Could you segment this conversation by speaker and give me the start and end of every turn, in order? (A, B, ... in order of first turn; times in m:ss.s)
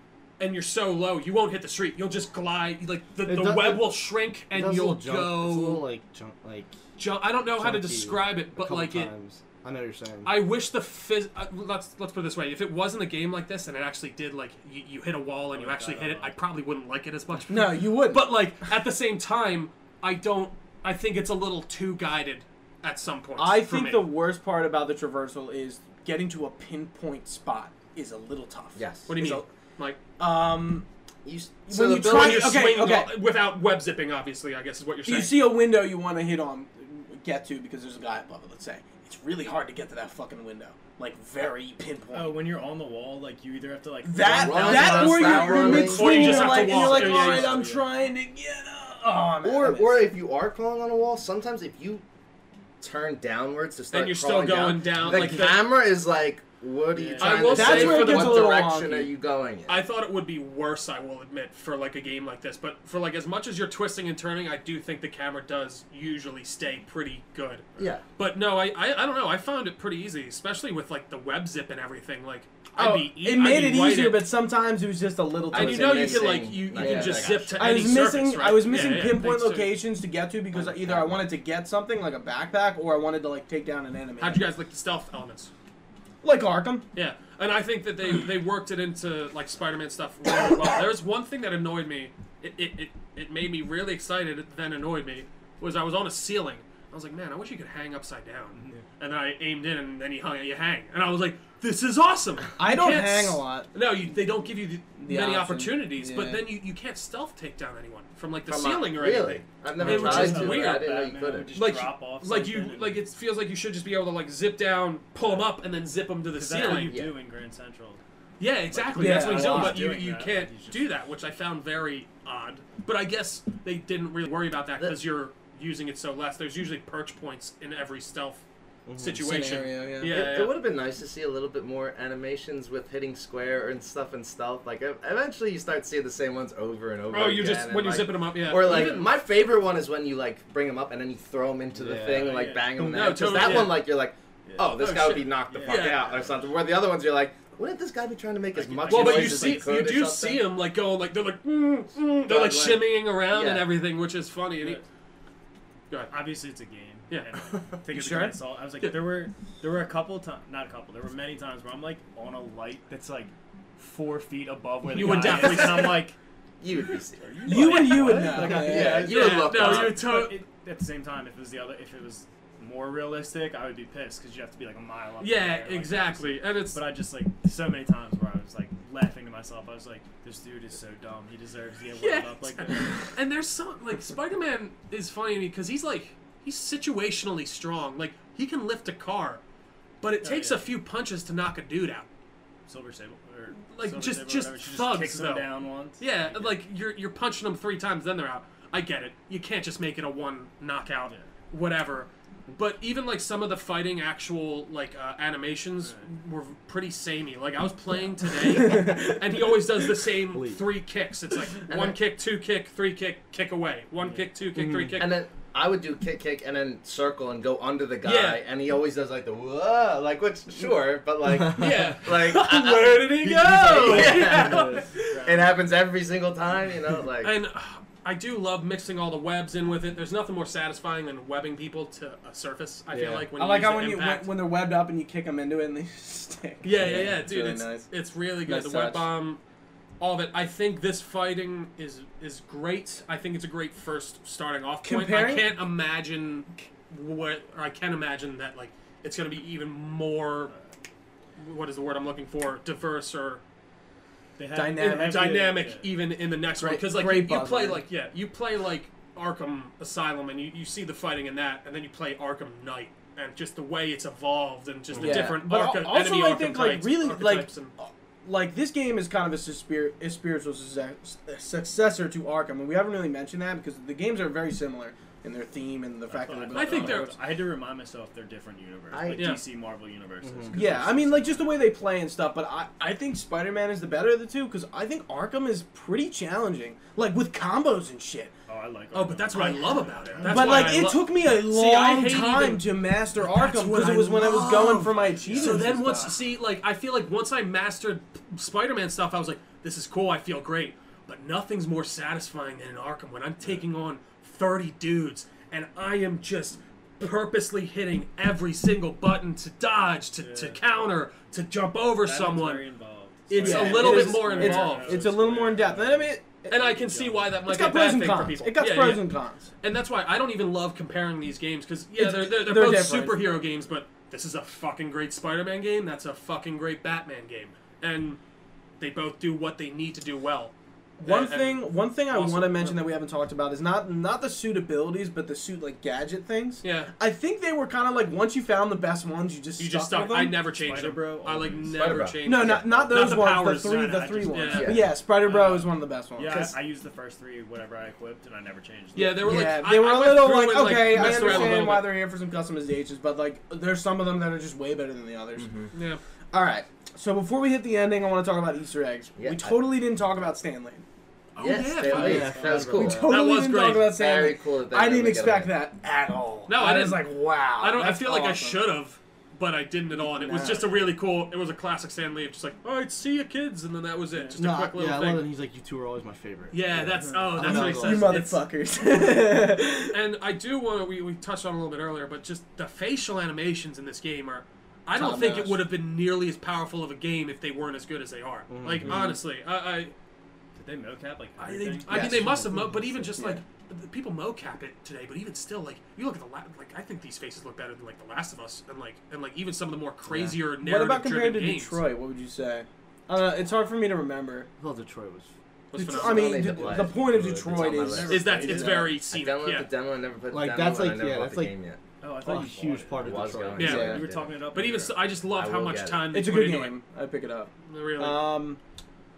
0:00.4-0:05.8 A
0:03.3-0:04.0 B
0:04.5-0:06.8 B
0:07.0-0:09.1 A
0:07.5-0:10.4 B
0:10.2-0:24.1 A
0:15.5-0:16.4 C
0:17.5-0:18.4 D
0:23.4-0:29.5 D
0:28.8-0:29.1 E
0:29.1-0:30.0 A
0:30.2-0:30.9 D
0:31.2-0:32.6 E
0:31.7-0:33.1 D
0:32.0-0:35.5 A
0:35.1-0:42.4 D
0:42.1-0:47.9 C
0:44.0-0:50.1 D
0:44.2-0:46.5 E
0:45.4-0:47.6 A
0:49.4-0:52.0 E
0:52.8-0:59.8 E
0:53.9-0:55.6 A
0:56.9-0:57.8 C
0:57.2-0:58.6 A
0:57.4-0:59.1 D
0:59.7-1:14.3 A
1:12.8-1:24.5 D
1:15.5-1:18.0 E
1:15.5-1:19.8 A
1:20.5-1:21.2 E
1:24.2-1:25.5 A
1:26.2-1:26.8 D
1:27.0-1:50.9 A
1:38.5-1:38.8 C
1:42.6-1:43.7 D
1:45.0-1:46.4 D
1:48.5-1:51.5 E
1:49.8-1:53.0 C
1:51.5-1:57.0 A
1:55.2-1:55.5 C
1:56.3-1:58.0 C
1:56.6-1:57.2 E
1:58.4-2:08.4 A
1:58.7-2:00.9 C
1:59.0-1:59.8 D
2:08.9-2:09.3 B
2:09.0-2:10.6 A
2:09.2-2:10.3 D
2:10.0-2:30.4 E
2:17.1-2:19.1 A
2:21.8-2:22.9 B
2:22.0-2:23.8 C
2:22.8-2:23.9 A
2:24.5-2:26.5 C
2:24.8-2:26.1 A
2:28.5-2:29.8 C
2:28.9-2:34.8 A
2:32.3-2:33.7 E
2:34.6-2:34.8 C
2:35.9-2:36.2 A
2:36.1-2:46.2 C
2:37.9-2:38.4 D
2:44.9-2:46.1 A
2:45.0-2:45.6 D
2:46.6-2:50.1 E
2:47.2-3:03.1 C
2:47.5-2:49.1 D
2:47.6-2:50.4 A
2:55.2-2:56.8 A
3:01.9-3:09.4 A
3:10.0-3:12.1 A
3:10.2-3:10.7 C
3:12.7-3:16.6 C
3:13.6-3:35.2 A
3:25.8-3:26.1 C
3:28.4-3:29.2 D
3:30.3-3:30.6 B
3:31.7-3:32.0 E
3:34.0-3:34.3 C
3:34.6-3:35.0 B
3:35.0-3:47.3 E
3:38.0-3:38.4 A
3:41.5-3:45.1 A
3:43.7-3:45.5 C
3:44.3-3:44.8 B
3:47.2-3:54.3 A
3:52.9-3:53.3 B
3:53.4-3:57.9 D
3:56.6-3:59.4 A
3:56.8-3:57.1 B
3:58.5-3:59.1 D
4:00.0-4:10.5 A
4:04.8-4:05.5 D
4:11.4-4:13.4 A
4:14.4-4:15.9 C
4:14.5-4:15.4 D
4:14.8-4:27.7 A
4:16.6-4:17.8 D
4:25.0-4:25.4 E
4:25.0-4:37.2 D
4:36.1-4:41.6 C
4:36.5-4:37.2 A
4:38.9-4:39.4 E
4:39.2-4:39.4 A
4:40.2-4:40.6 B
4:40.5-4:48.3 D
4:48.5-4:50.9 C
4:48.9-5:12.6 A
4:49.4-4:56.2 D
4:54.3-4:56.1 C
5:10.2-5:10.6 C
5:12.0-5:17.4 C
5:13.3-5:15.0 A
5:13.4-5:16.2 D
5:16.5-5:28.2 A
5:17.4-5:19.5 D
5:22.0-5:23.2 D
5:28.8-5:32.8 A
5:31.0-5:40.4 D
5:36.6-5:36.9 A
5:39.6-5:44.8 A
5:40.6-5:42.1 C
5:41.7-5:42.6 E
5:42.2-5:46.6 D
5:42.7-5:43.2 C
5:43.8-5:49.6 C
5:44.6-5:44.9 E
5:49.0-5:51.9 A
5:49.0-5:55.5 D
5:51.0-5:51.6 C
5:55.4-5:55.7 E
5:55.7-5:56.0 A
5:56.3-6:00.8 D
5:59.2-5:59.6 E
6:01.4-6:02.4 A
6:01.4-6:03.1 E
6:01.9-6:03.1 B
6:02.0-6:02.7 C
6:02.7-6:08.6 D
6:03.0-6:04.0 A
6:03.8-6:05.6 E
6:06.5-6:15.3 A
6:10.0-6:10.7 D
6:14.4-6:18.2 B
6:16.5-6:18.4 A
6:17.0-6:17.4 C
6:17.4-6:20.0 D
6:19.9-6:29.9 A
6:25.0-6:25.6 D
6:28.5-6:29.2 B
6:28.9-6:29.2 D
6:30.6-6:32.0 C
6:31.4-6:41.8 A
6:31.9-6:32.3 D
6:31.9-6:33.2 B
6:33.2-6:33.4 D
6:40.1-6:40.4 B
6:40.6-6:44.5 D
6:44.6-6:45.3 B
6:45.7-6:46.6 A
6:45.7-6:49.0 D
6:45.9-6:51.8 E
6:46.6-6:46.9 B
6:47.8-6:48.6 C
6:48.1-6:49.7 A
6:50.3-6:51.5 B
6:52.0-6:55.1 C
6:52.2-6:54.1 B
6:53.0-6:54.3 E
6:53.6-6:54.0 A
6:54.5-6:56.8 A
6:55.3-6:56.0 E
6:56.1-6:58.6 D
6:57.7-6:58.2 A